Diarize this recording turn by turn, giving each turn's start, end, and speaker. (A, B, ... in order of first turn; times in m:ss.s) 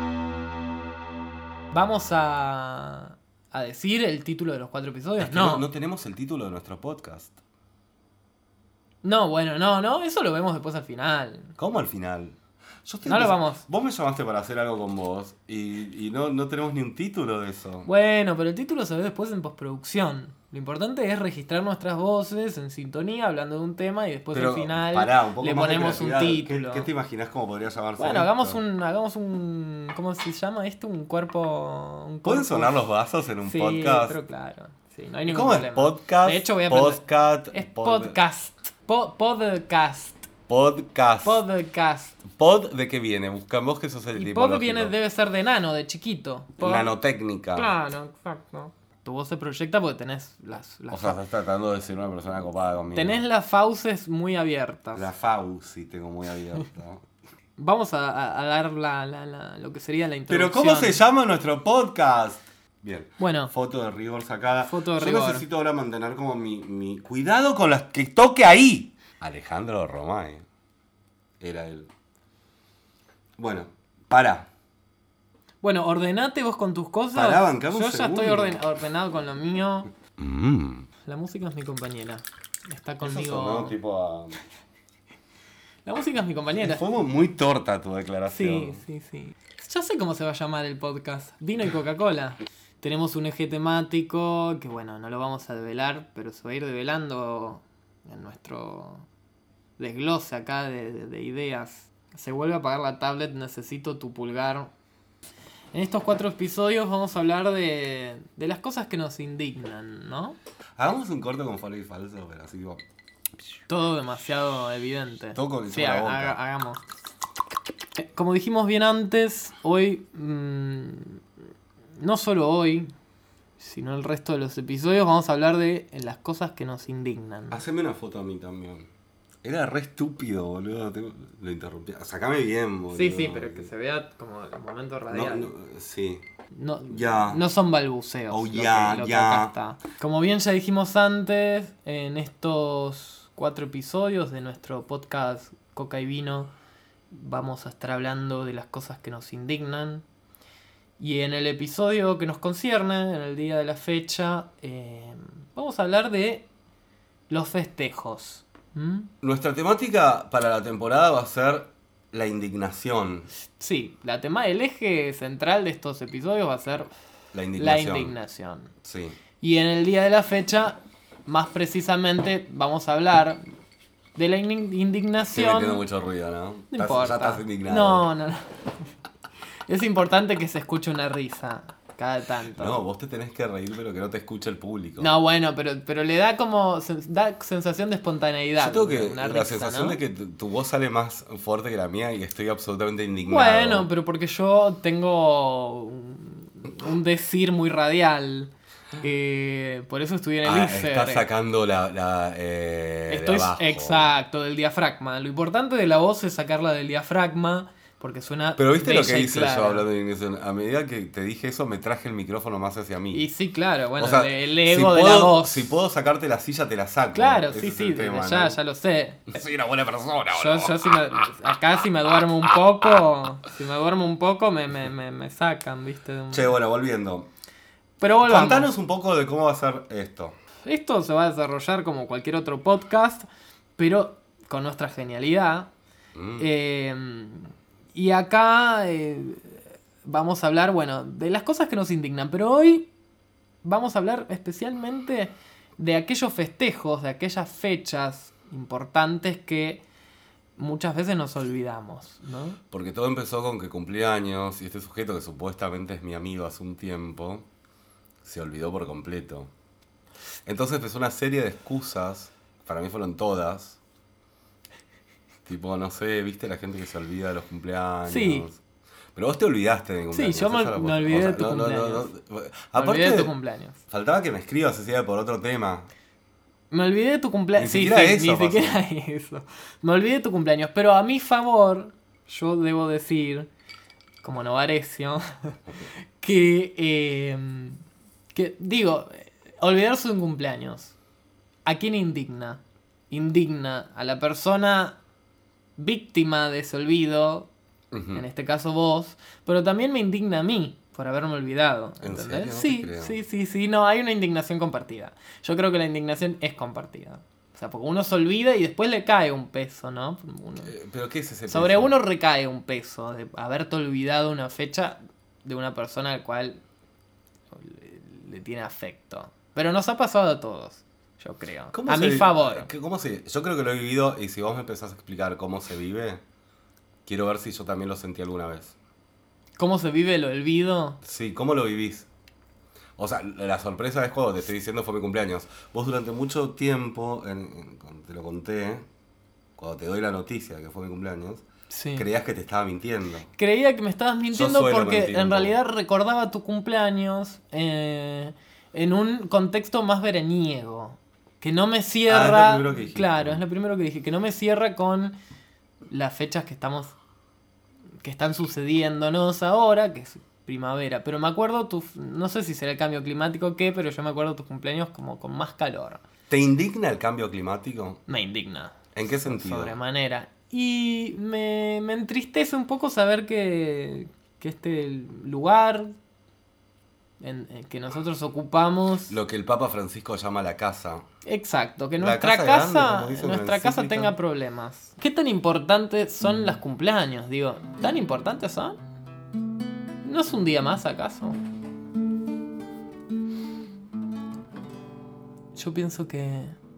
0:01.7-0:05.6 A
0:05.2-0:07.4 B
0:09.0-0:11.6 A
0:11.6-0:17.9 B
0:13.0-0:13.6 A
0:17.8-0:26.9 A
0:24.3-0:28.6 B
0:28.0-0:32.8 A
0:32.2-0:34.2 B
0:33.4-0:40.3 A
0:35.2-0:38.2 B
0:40.5-0:41.4 B
0:41.2-0:42.2 A
0:42.3-0:44.9 B
0:44.1-0:46.9 A
0:46.6-0:47.8 B
0:47.5-0:51.2 A
0:50.9-0:53.2 B
0:52.9-0:55.0 A
0:54.9-0:57.0 B
0:57.6-1:01.0 A
1:00.3-1:10.4 B
1:03.2-1:03.5 A
1:04.6-1:05.4 A
1:11.4-1:11.9 B
1:13.4-1:14.5 B
1:15.6-1:19.9 A
1:17.1-1:18.6 B
1:20.2-1:20.9 B
1:21.0-1:23.8 A
1:23.0-1:24.4 B
1:25.8-1:26.8 A
1:26.6-1:28.8 B
1:28.3-1:39.0 A
1:39.8-1:44.7 A
1:45.7-1:50.4 A
1:50.8-1:52.8 B
1:53.7-1:56.8 A
1:55.3-1:56.4 B
1:58.0-2:01.2 A
2:02.0-2:02.9 A
2:03.6-2:07.6 A
2:07.5-2:08.9 B
2:09.4-2:13.7 B
2:12.9-2:15.5 A
2:15.1-2:16.2 B
2:16.5-2:26.5 A
2:16.9-2:17.4 B
2:18.3-2:19.5 B
2:27.1-2:30.0 A
2:31.0-2:36.4 A
2:37.3-2:39.1 A
2:39.2-2:43.3 B
2:43.6-2:46.9 A
2:47.3-2:48.2 B
2:47.6-2:48.7 A
2:48.8-2:49.2 B
2:49.4-2:53.4 A
2:54.2-2:55.8 A
2:55.3-2:58.1 B
2:56.7-2:58.6 A
2:59.7-3:02.8 A
3:02.5-3:05.1 B
3:05.0-3:10.0 A
3:08.6-3:13.9 B
3:13.3-3:21.3 A
3:20.4-3:24.1 B
3:23.1-3:29.8 A
3:28.6-3:33.3 B
3:33.1-3:35.7 A
3:34.0-3:38.6 B
3:37.1-3:39.4 A
3:39.3-3:41.0 B
3:40.3-3:46.6 A
3:46.3-3:47.3 B
3:48.0-3:48.7 A
3:48.2-3:50.4 B
3:50.6-3:55.7 A
3:56.1-3:56.5 B
3:56.4-4:02.9 A
4:03.6-4:09.8 A
4:10.6-4:12.6 A
4:12.7-4:17.5 B
4:18.2-4:19.5 B
4:20.4-4:23.8 B
4:25.4-4:28.6 B
4:28.0-4:28.5 A
4:29.1-4:33.3 B
4:30.1-4:32.1 A
4:32.7-4:33.8 A
4:33.9-4:35.9 B
4:36.7-4:43.5 A
4:37.6-4:38.8 B
4:44.2-4:47.8 A
4:48.3-4:50.9 A
4:51.6-4:55.0 A
4:55.8-4:57.5 A
4:57.9-4:58.2 B
4:58.1-5:10.7 A
5:02.0-5:03.2 B
5:10.6-5:11.9 B
5:11.5-5:16.6 A
5:17.5-5:22.7 A
5:21.7-5:26.2 B
5:27.0-5:28.7 B
5:29.6-5:31.0 A
5:31.0-5:32.1 B
5:33.0-5:38.8 B
5:39.6-5:43.3 B
5:41.7-5:42.1 A
5:43.4-5:55.2 A
5:44.3-5:45.5 B
5:52.1-5:53.4 B
5:55.9-5:57.0 A
5:58.0-6:06.0 A
6:06.3-6:08.0 B
6:08.1-6:15.9 A
6:08.9-6:09.8 B
6:17.2-6:19.2 A
6:19.1-6:21.0 B
6:21.2-6:28.8 A
6:22.0-6:24.2 B
6:30.0-6:31.4 A
6:35.6-6:36.6 A